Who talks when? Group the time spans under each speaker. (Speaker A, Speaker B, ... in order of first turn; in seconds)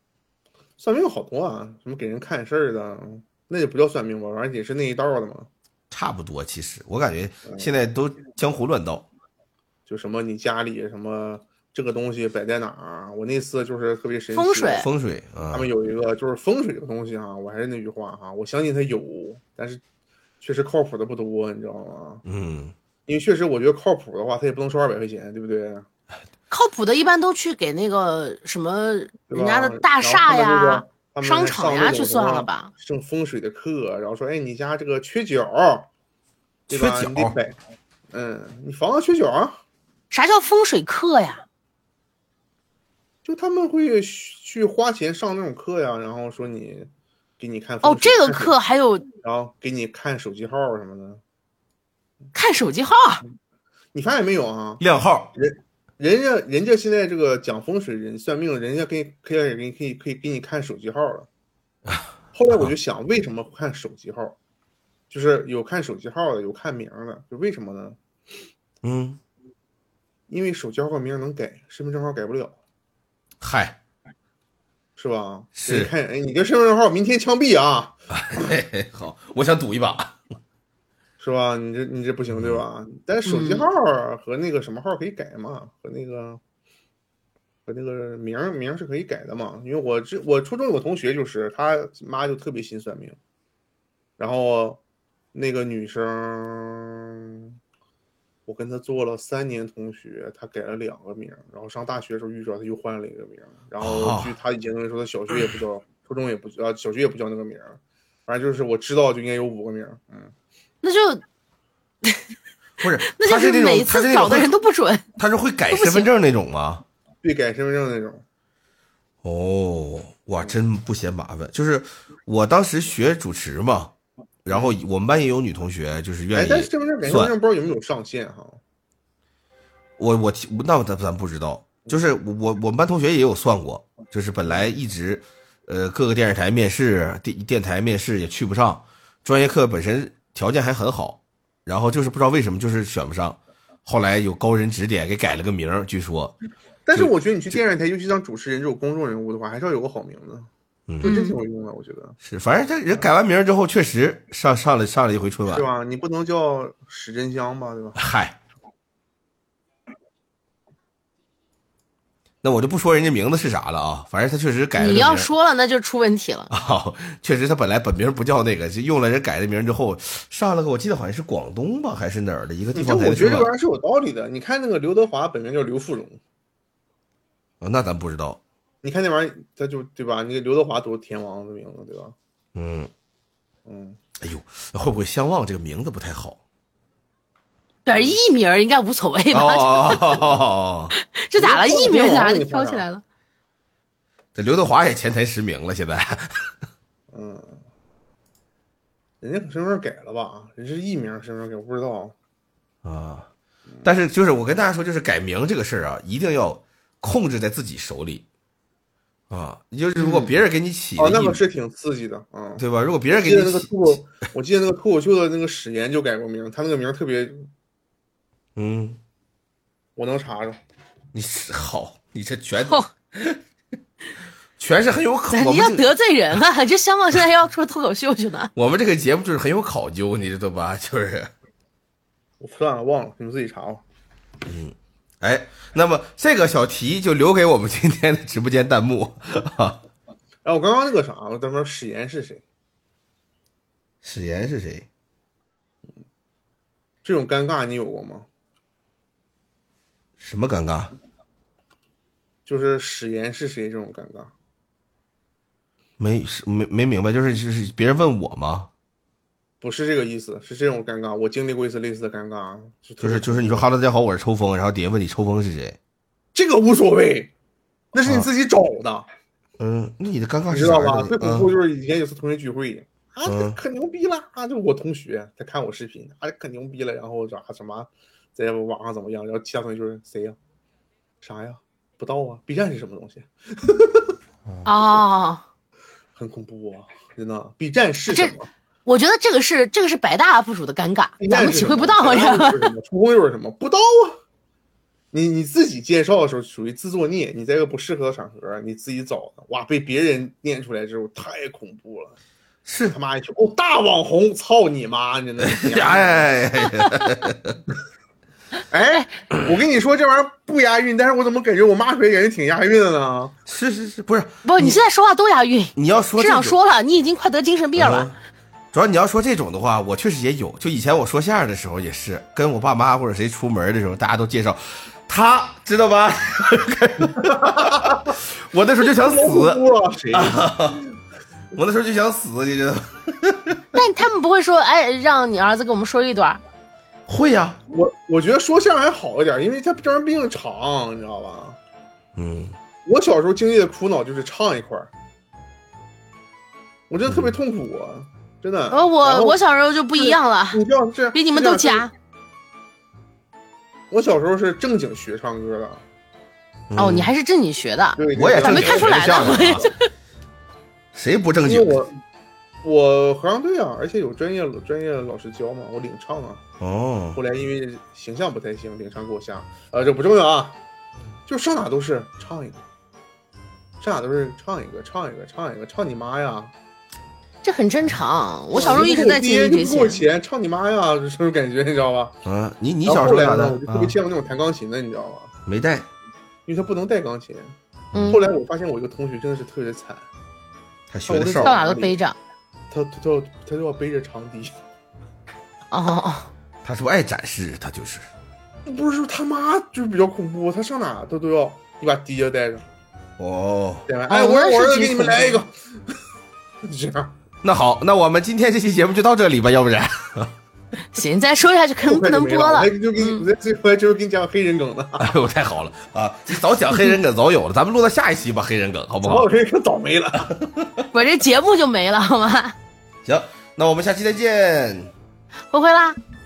Speaker A: 0.8-5.5, 9.9-14.9, 15.5-19.8, 20.4-22.2, 23.1-25.9, 29.3-35.9, 36.7-37.6, 38.1-39.6, 43.2-48.6, 49.2-51.2, 53.9-54.8, 55.4-61.3, 62.3-64.4, 65.1-68.0, 70.3-72.6, 75.0-78.5, 81.2-86.4, 87.7-93.2, 94.2-94.8, 95.3-97.6, 98.5-110.3, 117.2-118.2, 126.3-128.6, 146.9-150.5, 151.0-152.2, 155.5-158.0, 172.7-176.2, 178.8-182.2, 183.7-184.0, 191.4-192.8, 197.1-197.6, 199.2-202.2, 210.0-210.3, 211.0-217.5, 220.0-220.6, 232.4-233.8, 240.4-242.4, 247.0-248.3, 252.5-254.3, 259.6-263.6, 266.3-267.3, 267.9-269.1, 270.5-280.4, 281.2-284.2, 286.1-288.5, 291.2-294.2, 295.1-302.2, 302.9-306.3, 308.7-313.4, 327.1-328.1, 328.9-330.5, 337.7-341.6, 342.9-344.9, 346.9-349.4, 350.0-351.9, 353.9-355.8, 358.0-359.6, 361.4-361.9, 362.6-366.4, 367.1-370.6, 371.3-372.6, 373.8-376.5, 378.5-382.2, 382.9-385.3, 386.5-387.6, 388.1-390.1, 391.1-392.0, 392.7-394.6, 398.6-402.6, 403.9-405.9, 406.6-407.2, 411.8-415.1, 419.0-420.4
Speaker B: 5.9-9.1, 14.7-15.7, 22.3-22.7, 36.7-37.4, 54.8-55.3, 61.9-62.7, 68.8-69.2, 73.4-73.8, 75.5-75.9, 78.1-80.2, 82.3-82.6, 103.8-104.3, 112.8-114.5, 115.2-116.8, 119.2-123.9, 124.5-127.3, 130.0-146.3, 146.9-147.6, 152.2-155.6, 158.0-158.4, 162.4-165.3, 166.5-173.5, 177.6-178.4, 182.6-182.9, 184.2-186.4, 189.3-190.9, 194.4-196.5, 202.8-203.3, 203.8-208.2, 209.3-211.4, 212.6-214.0, 218.6-219.0, 221.1-223.4, 224.6-225.9, 228.6-231.3, 234.5-239.8, 244.0-244.9, 250.2-250.9, 256.0-258.7, 263.0-265.8, 269.6-271.5, 273.3-273.6, 302.7-303.0, 305.4-307.6, 313.5-314.8, 315.8-316.6, 317.8-318.2, 318.7-330.9, 331.5-333.6, 337.1-337.6, 342.2-342.6, 347.1-347.3, 356.7-357.1, 358.1-359.7, 360.9-361.8, 366.6-367.2, 382.2-383.9, 385.5-385.9, 387.9-388.2, 390.9-391.6, 396.6-398.1, 403.2-403.9, 407.4-410.3, 415.0-419.3, 420.2-420.8, 423.1-424.9
Speaker C: 14.3-14.9, 26.5-32.7, 40.1-41.4, 47.8-49.1, 52.3-53.2, 83.2-83.7, 110.8-111.2, 113.1-115.0, 115.7-116.1, 151.0-151.4, 164.8-166.5, 187.8-190.2, 190.9-193.0, 222.6-222.9, 225.3-228.5, 284.6-285.4, 288.1-288.3, 288.9-292.7, 314.4-318.1, 333.7-336.4, 348.7-351.9, 356.8-359.9, 377.4-380.0, 387.9-388.2, 391.4-392.2, 395.7-396.3, 404.1-405.4, 410.9-413.2, 420.9-422.6, 425.5-426.0